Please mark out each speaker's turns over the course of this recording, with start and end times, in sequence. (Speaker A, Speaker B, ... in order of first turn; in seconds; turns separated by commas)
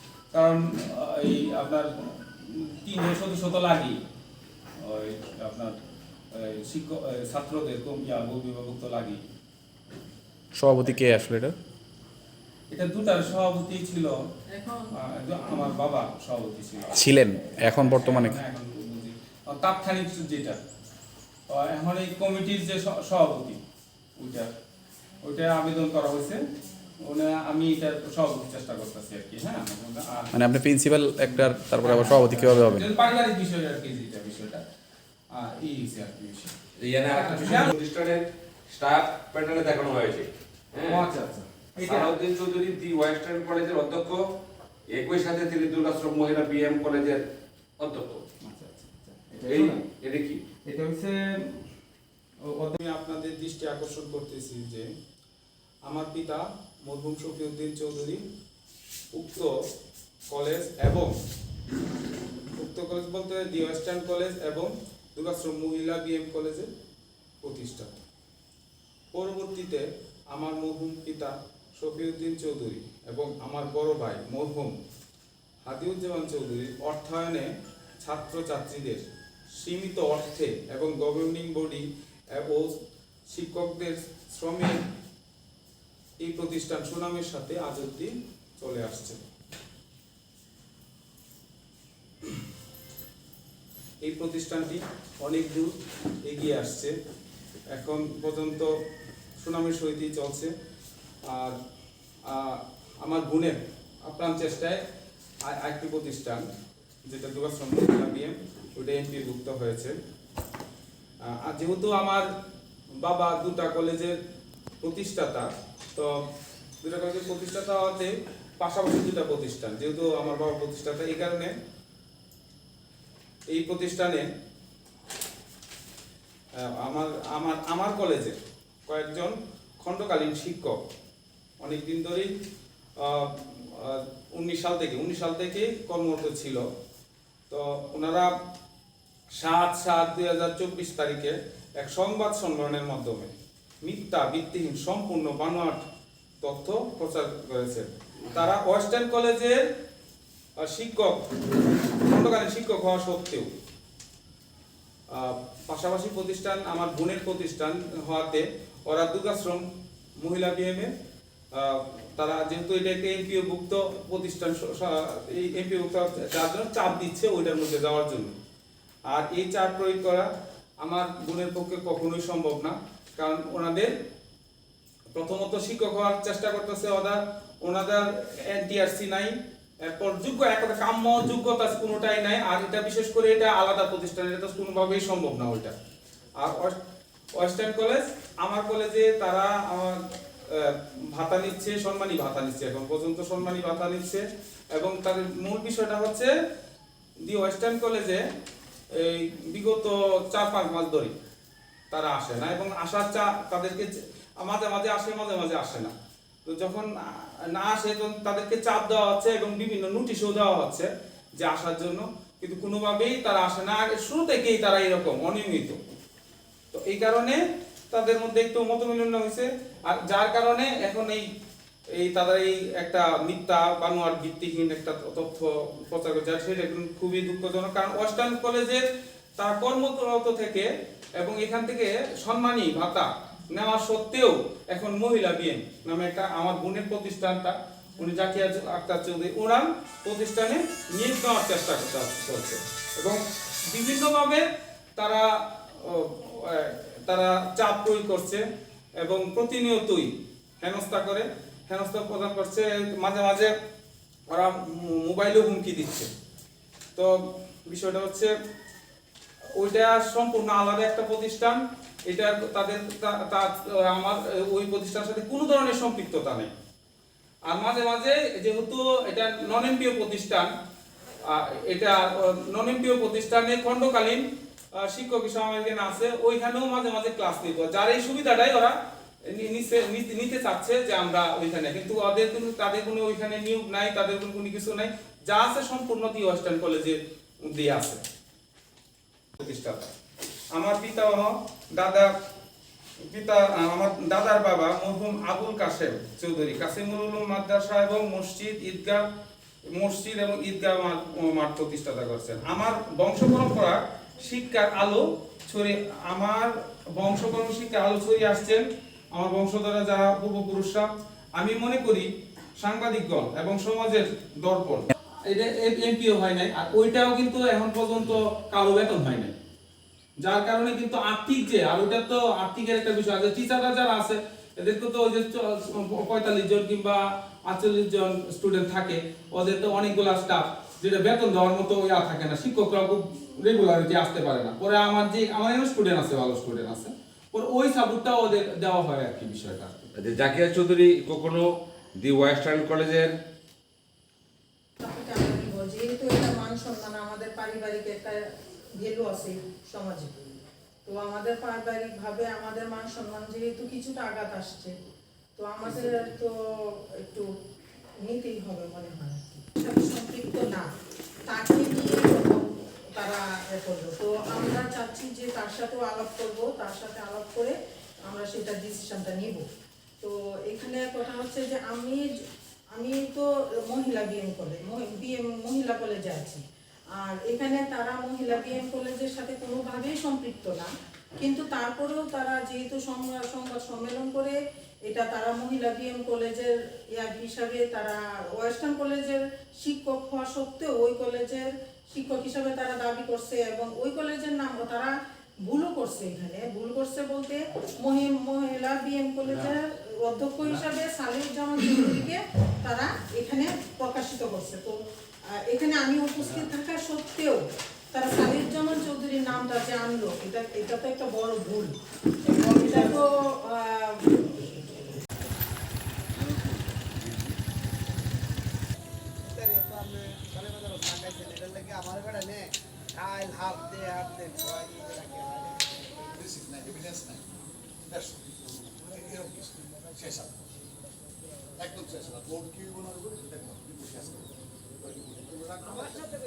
Speaker A: 0.3-4.0, Speaker A: 4.8-5.8, Speaker A: 6.3-9.2, Speaker B: 10.6-11.6, Speaker A: 12.7-14.2, Speaker C: 14.6-14.8, Speaker A: 14.9-20.6, Speaker B: 16.9-18.4, Speaker A: 21.5-23.6, Speaker A: 24.2-24.5, Speaker A: 25.2-26.4, Speaker A: 27.0-30.3, Speaker B: 30.3-32.9, Speaker A: 31.8-34.6, Speaker A: 35.3-36.5, Speaker D: 36.8-41.0, Speaker A: 37.1-37.7, Speaker A: 40.9-42.1, Speaker D: 41.8-44.2, Speaker D: 44.9-47.2, Speaker D: 47.8-48.3, Speaker A: 48.4-49.8, Speaker D: 49.5-50.4, Speaker A: 50.6-51.7, Speaker A: 52.4-54.9, Speaker A: 55.9-58.2, Speaker A: 59.1-59.5, Speaker A: 60.3-61.1, Speaker A: 62.5-66.7, Speaker A: 67.4-67.9, Speaker A: 69.1-74.8, Speaker A: 75.6-77.5, Speaker A: 78.0-79.0, Speaker A: 79.6-82.7, Speaker A: 83.3-84.8, Speaker A: 86.2-89.2, Speaker A: 94.0-97.0, Speaker A: 97.7-98.8, Speaker A: 99.4-100.5, Speaker A: 101.2-101.6, Speaker A: 102.3-104.8, Speaker A: 105.4-106.5, Speaker A: 107.1-110.0, Speaker A: 111.2-112.3, Speaker A: 113.0-114.2, Speaker A: 114.8-116.2, Speaker A: 116.8-121.5, Speaker A: 123.5-124.3, Speaker A: 126.6-130.8, Speaker A: 131.6-132.3, Speaker A: 133.0-136.6, Speaker A: 137.5-138.3, Speaker A: 139.4-143.3, Speaker A: 143.8-145.8, Speaker A: 146.4-149.7, Speaker A: 150.6-151.2, Speaker A: 151.9-153.5, Speaker A: 155.1-159.7, Speaker A: 160.2-160.9, Speaker A: 161.5-168.3, Speaker A: 169.1-170.3, Speaker A: 170.8-173.9, Speaker A: 175.1-185.7, Speaker A: 186.4-186.8, Speaker A: 187.4-190.0, Speaker A: 190.5-196.3, Speaker A: 197.2-198.2, Speaker A: 198.9-201.1, Speaker A: 201.9-205.9, Speaker A: 206.4-215.8, Speaker A: 216.7-221.3, Speaker A: 221.9-228.8, Speaker A: 229.4-248.4, Speaker A: 249.0-253.5, Speaker A: 254.3-256.1, Speaker A: 257.0-258.3, Speaker A: 259.6-266.5, Speaker A: 267.5-270.5, Speaker A: 271.3-274.2, Speaker A: 274.8-278.8, Speaker A: 279.3-288.0, Speaker A: 289.4-289.9, Speaker A: 290.5-292.1, Speaker A: 293.1-299.1, Speaker A: 299.7-319.4, Speaker A: 320.2-339.8, Speaker D: 339.9-343.1, Speaker C: 344.8-348.2, Speaker C: 348.8-350.1, Speaker C: 350.9-354.7, Speaker C: 355.4-357.3, Speaker C: 358.0-360.7, Speaker C: 361.2-369.5, Speaker C: 370.0-372.1, Speaker C: 372.8-376.4, Speaker C: 376.9-394.9, Speaker C: 395.4-411.7, Speaker E: 412.3-413.0, Speaker C: 412.3-414.8, Speaker D: 416.2-417.3, Speaker E: 419.2-426.2, Speaker F: 426.3-427.2, Speaker F: 427.9-430.3, Speaker F: 431.6-434.3, Speaker F: 435.0-435.8